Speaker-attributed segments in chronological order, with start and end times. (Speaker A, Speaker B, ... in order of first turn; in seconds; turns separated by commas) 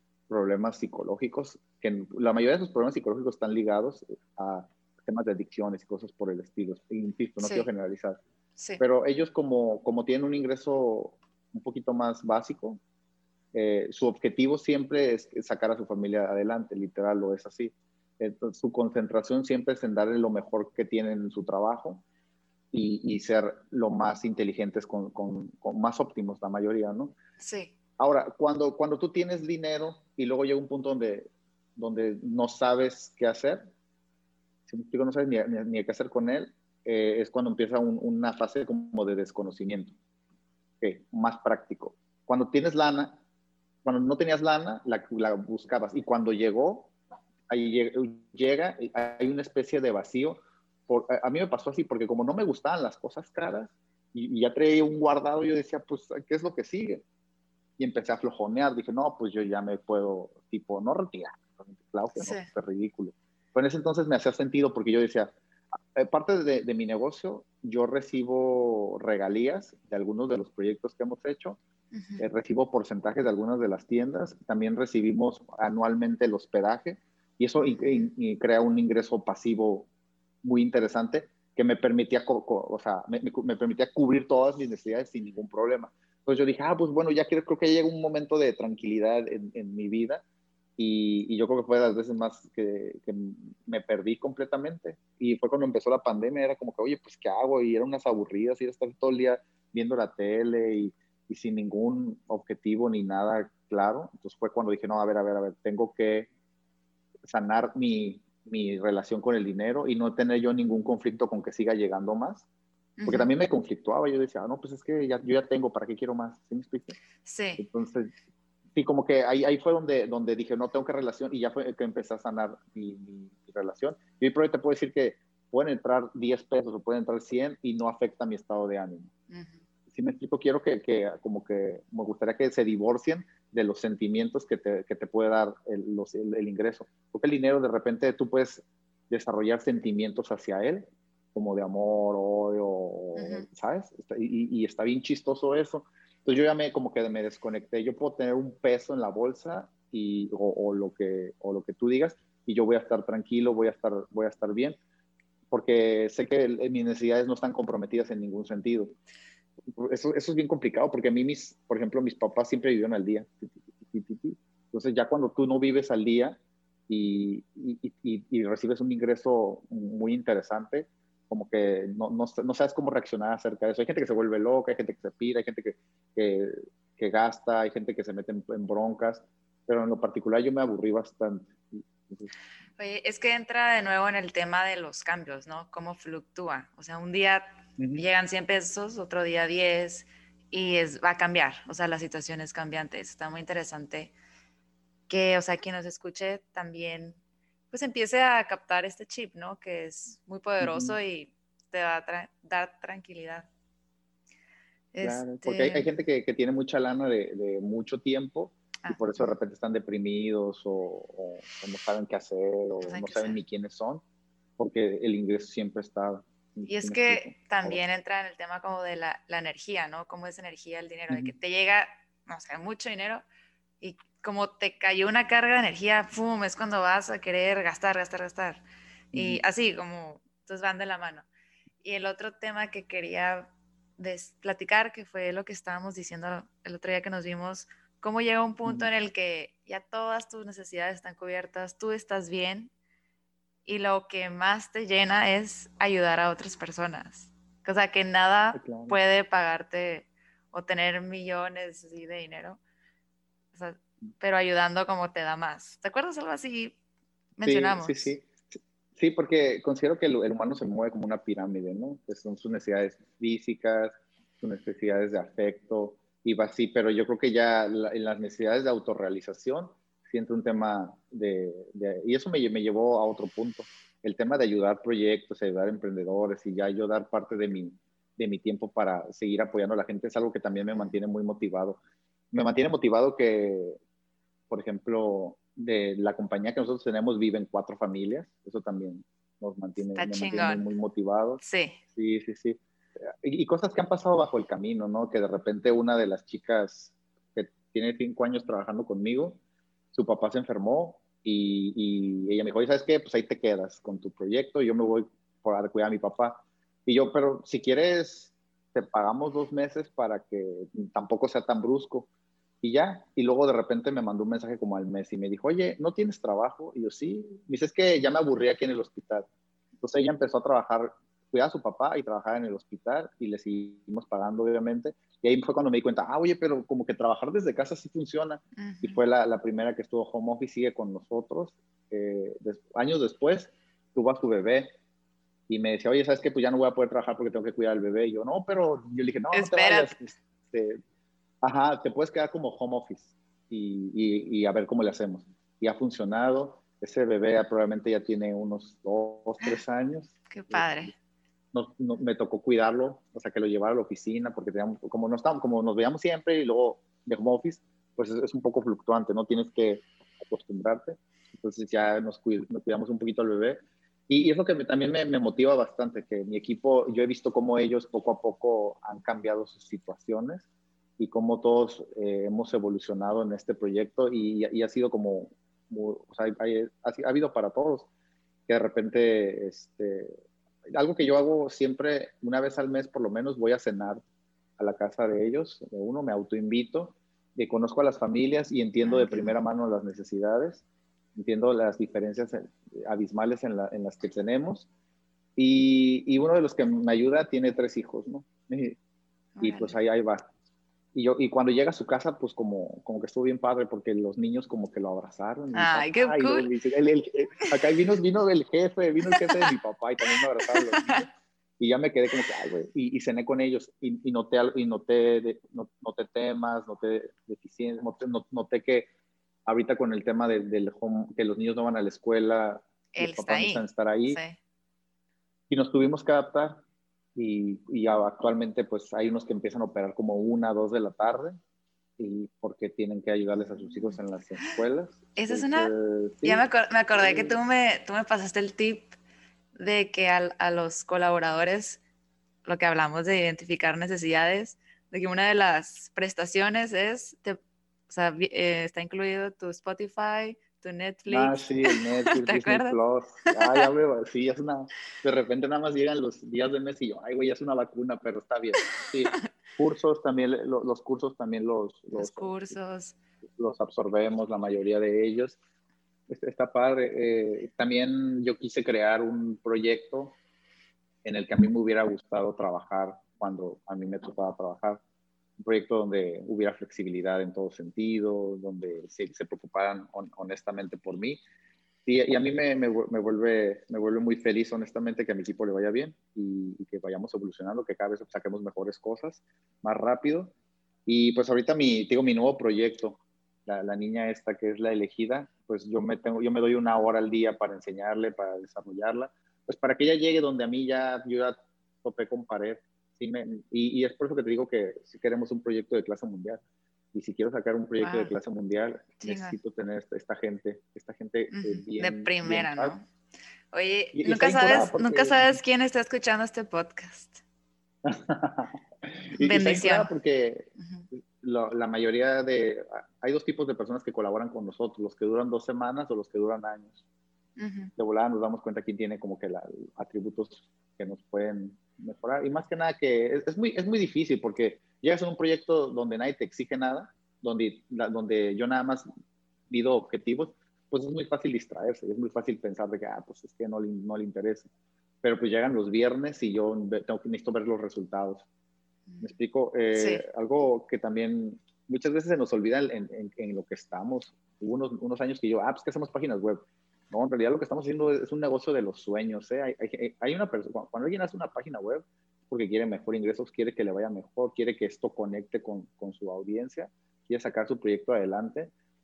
Speaker A: 0.3-8.2, Speaker B: 7.4-7.7, Speaker A: 8.8-12.8, Speaker A: 13.5-22.0, Speaker A: 22.7-27.2, Speaker B: 27.4-27.7, Speaker A: 28.0-33.7, Speaker A: 34.7-40.0, Speaker A: 40.8-43.2, Speaker A: 43.9-46.9, Speaker A: 47.5-57.0, Speaker A: 57.8-65.3, Speaker B: 62.2-62.5, Speaker A: 65.9-71.6, Speaker B: 71.9-72.2, Speaker A: 72.2-79.9, Speaker B: 77.6-78.1, Speaker A: 80.4-90.2, Speaker A: 90.8-106.3, Speaker A: 107.3-112.5, Speaker B: 113.0-113.3, Speaker A: 113.0-117.0, Speaker B: 117.2-117.6, Speaker A: 117.6-118.1, Speaker A: 118.8-129.1, Speaker B: 129.3-129.6, Speaker A: 129.9-154.8, Speaker B: 143.2-143.5, Speaker A: 155.5-159.0, Speaker A: 159.7-166.4, Speaker A: 166.9-182.3, Speaker B: 182.8-194.1, Speaker A: 187.8-188.1, Speaker B: 195.1-197.2, Speaker B: 197.7-203.5, Speaker A: 200.6-201.0, Speaker B: 204.9-205.9, Speaker A: 205.0-214.0, Speaker B: 208.8-209.3, Speaker B: 212.8-213.4, Speaker A: 214.6-217.8, Speaker B: 216.7-223.2, Speaker B: 223.8-228.6, Speaker B: 229.1-231.3, Speaker A: 229.1-229.4, Speaker B: 231.8-242.7, Speaker B: 243.7-252.6, Speaker A: 248.5-249.0, Speaker B: 253.5-256.8, Speaker B: 257.4-258.1, Speaker A: 257.4-281.8, Speaker A: 282.3-283.8, Speaker A: 284.5-291.4, Speaker B: 289.9-290.7, Speaker B: 291.4-291.8, Speaker A: 291.9-292.6, Speaker A: 293.1-299.4, Speaker A: 299.9-312.1, Speaker A: 312.6-319.3, Speaker A: 319.8-334.7, Speaker B: 328.6-329.0, Speaker A: 335.5-340.8, Speaker B: 339.3-339.9, Speaker A: 341.4-350.9, Speaker B: 350.3-350.9, Speaker A: 351.5-370.5, Speaker A: 371.0-377.9, Speaker A: 378.5-380.1, Speaker A: 380.7-384.0, Speaker A: 384.6-390.6, Speaker B: 388.8-389.4, Speaker A: 391.2-394.7, Speaker A: 395.4-398.8, Speaker B: 399.4-399.8, Speaker A: 399.4-400.3, Speaker A: 400.9-418.9, Speaker B: 405.5-406.5, Speaker B: 410.4-411.1, Speaker A: 419.5-424.2, Speaker B: 422.9-424.4, Speaker A: 425.5-426.6, Speaker A: 427.2-431.4, Speaker A: 432.0-437.4, Speaker B: 433.6-433.9, Speaker B: 435.1-435.7, Speaker B: 436.2-438.9, Speaker B: 439.6-441.8, Speaker B: 442.4-447.4, Speaker B: 447.9-451.5, Speaker A: 451.1-462.6, Speaker B: 452.1-452.8, Speaker B: 461.9-463.0, Speaker A: 463.4-465.4, Speaker A: 466.1-470.2, Speaker A: 471.0-474.8, Speaker A: 475.4-481.2, Speaker A: 481.9-490.3, Speaker A: 490.9-506.4, Speaker A: 506.9-512.8, Speaker B: 507.8-508.1, Speaker B: 509.0-509.4, Speaker B: 511.3-512.8, Speaker B: 513.5-517.2, Speaker A: 513.9-515.4, Speaker A: 517.9-526.8, Speaker B: 519.2-519.9, Speaker B: 520.6-520.9, Speaker B: 527.4-527.7, Speaker A: 527.8-538.9, Speaker A: 539.5-544.5, Speaker A: 545.0-548.3, Speaker A: 549.0-568.5, Speaker B: 549.8-550.0